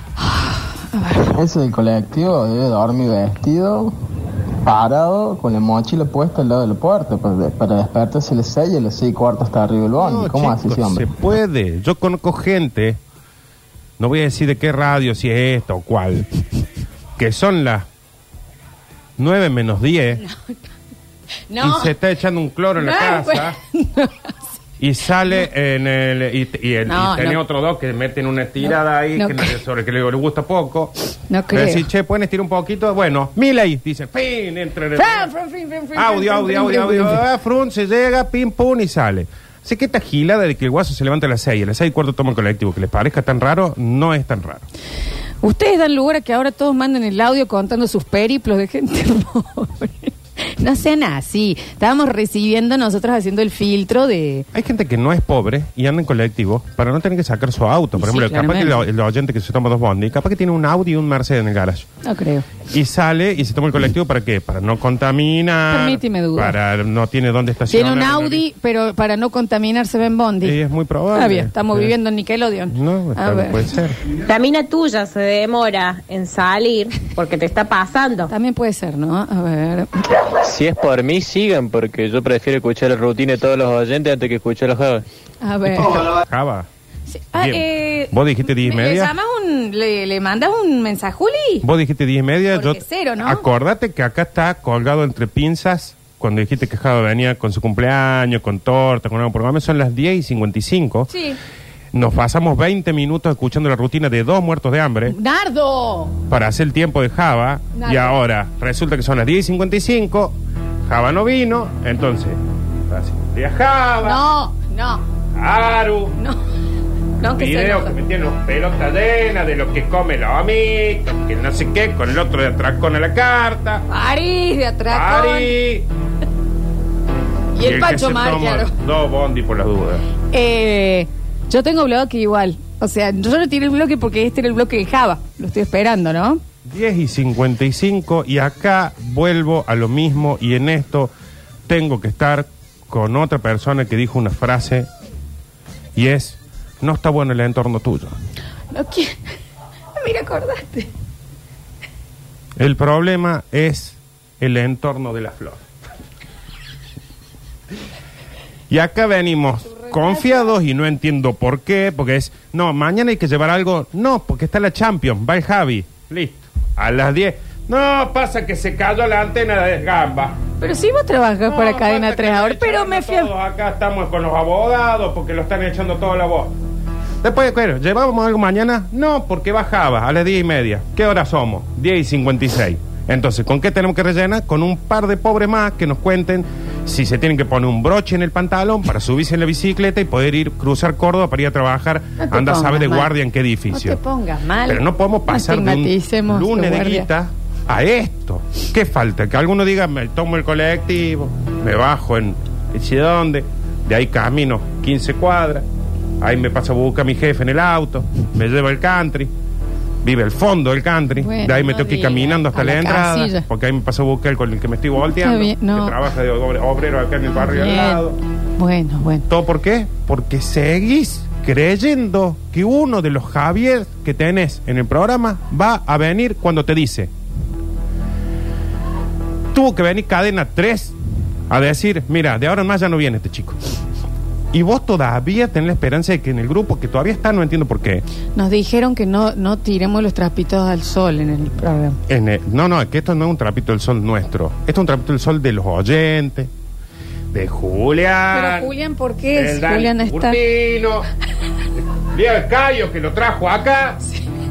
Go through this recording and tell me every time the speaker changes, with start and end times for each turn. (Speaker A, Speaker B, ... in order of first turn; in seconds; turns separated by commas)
Speaker A: 0.2-1.4, Speaker B: 1.4-3.9, Speaker B: 4.6-11.1, Speaker C: 10.0-13.0, Speaker C: 14.0-16.3, Speaker C: 17.2-17.8, Speaker C: 19.2-20.2, Speaker A: 20.2-20.6, Speaker A: 21.5-21.9, Speaker C: 21.6-23.6, Speaker A: 22.8-24.3, Speaker C: 24.8-30.9, Speaker A: 26.9-27.4, Speaker A: 28.6-29.6, Speaker A: 31.3-31.9, Speaker C: 31.5-35.3, Speaker A: 35.0-37.2, Speaker C: 35.9-44.6, Speaker A: 45.4-54.5, Speaker C: 54.5-61.9, Speaker A: 58.0-58.8, Speaker A: 62.0-62.5, Speaker C: 62.7-68.4, Speaker A: 65.7-66.5, Speaker A: 67.7-70.6, Speaker C: 70.4-71.9, Speaker A: 71.1-73.7, Speaker C: 72.7-74.0, Speaker D: 74.3-78.3, Speaker A: 78.3-79.9, Speaker E: 80.4-85.0, Speaker A: 85.4-86.1, Speaker C: 85.7-86.7, Speaker A: 87.1-91.7, Speaker C: 87.3-89.1, Speaker C: 91.6-101.1, Speaker A: 92.5-93.4, Speaker A: 101.1-101.4, Speaker C: 101.9-105.2, Speaker A: 105.1-106.1, Speaker C: 106.3-114.2, Speaker A: 107.7-108.2, Speaker A: 114.0-115.0, Speaker C: 115.4-116.1, Speaker A: 117.2-117.9, Speaker C: 117.4-123.8, Speaker A: 123.9-125.5, Speaker C: 124.9-125.8, Speaker A: 127.5-128.7, Speaker C: 127.6-130.0, Speaker A: 130.3-136.4, Speaker C: 136.6-141.1, Speaker C: 141.7-144.9, Speaker C: 145.9-148.1, Speaker A: 148.7-149.2, Speaker A: 150.0-150.9, Speaker C: 152.6-155.6, Speaker C: 158.7-170.4, Speaker A: 159.7-160.6, Speaker A: 170.6-173.3, Speaker C: 171.4-176.5, Speaker C: 177.2-194.0, Speaker A: 192.2-193.1, Speaker A: 193.7-197.1, Speaker C: 194.7-205.6, Speaker C: 206.2-209.3, Speaker C: 210.0-218.2, Speaker A: 211.2-213.4, Speaker A: 215.1-216.0, Speaker A: 217.3-218.0, Speaker A: 218.6-219.2, Speaker C: 219.3-227.1, Speaker C: 229.5-230.9, Speaker C: 231.5-233.6, Speaker C: 234.5-238.0, Speaker A: 238.3-242.0, Speaker C: 242.1-246.5, Speaker C: 247.3-248.7, Speaker A: 248.3-250.4, Speaker C: 249.3-251.1, Speaker C: 252.1-254.0